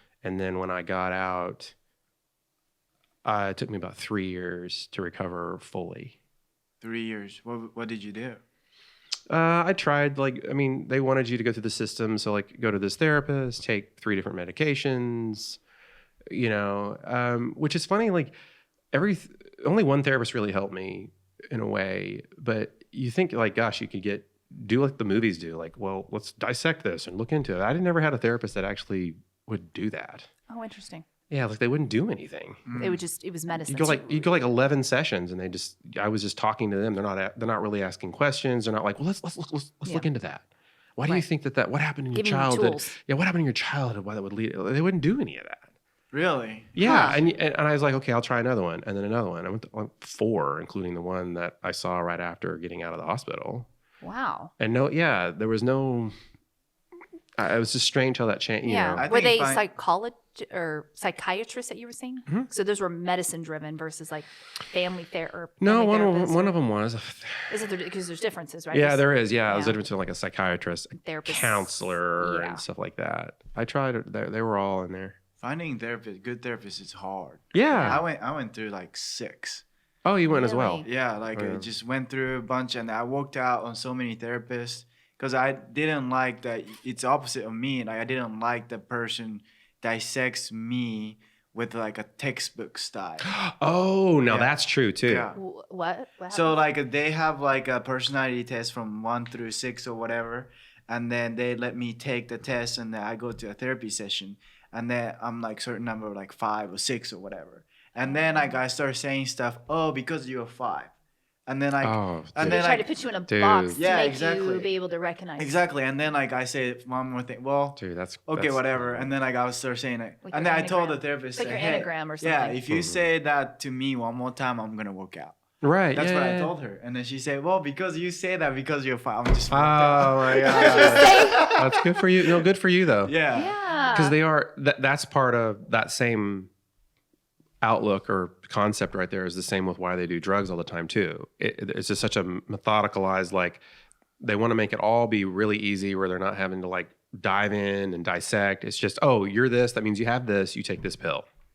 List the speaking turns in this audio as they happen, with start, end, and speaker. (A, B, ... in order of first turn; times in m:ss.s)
0:00.2-0:01.7 A
0:03.2-0:06.2 A
0:06.8-0:08.4 B
0:09.3-0:15.6 A
0:16.3-0:18.3 A
0:18.9-0:30.3 A
0:30.5-0:31.0 C
0:31.3-0:32.7 A
0:32.6-0:33.0 B
0:32.8-0:34.3 C
0:33.6-0:45.7 A
0:42.1-0:43.0 C
0:46.1-0:47.1 B
0:46.7-0:53.7 A
0:46.8-0:47.2 C
0:54.0-0:54.5 C
0:54.6-0:56.1 A
0:57.4-0:59.1 A
0:58.6-1:06.5 C
0:59.0-0:59.6 B
1:05.6-1:07.5 A
1:07.5-1:09.8 C
1:08.7-1:15.2 A
1:10.9-1:12.6 C
1:15.4-1:19.6 B
1:17.5-1:18.0 A
1:17.7-1:18.0 C
1:20.0-1:21.7 A
1:20.2-1:20.9 C
1:20.8-1:33.3 B
1:33.2-1:35.3 A
1:34.3-1:35.4 B
1:35.3-1:36.6 C
1:36.3-1:50.9 B
1:48.0-1:48.6 C
1:51.5-1:52.9 B
1:51.8-1:52.6 A
1:52.4-1:55.6 C
1:53.3-1:53.8 A
1:53.7-1:54.7 B
1:55.4-2:05.4 B
1:57.8-1:59.1 A
2:00.2-2:02.6 C
2:02.7-2:03.1 A
2:05.6-2:06.5 A
2:05.9-2:12.4 B
2:09.5-2:13.1 A
2:10.4-2:11.5 C
2:13.0-2:13.5 B
2:13.3-2:14.2 C
2:13.9-2:16.5 A
2:17.6-2:23.6 A
2:24.2-2:31.3 A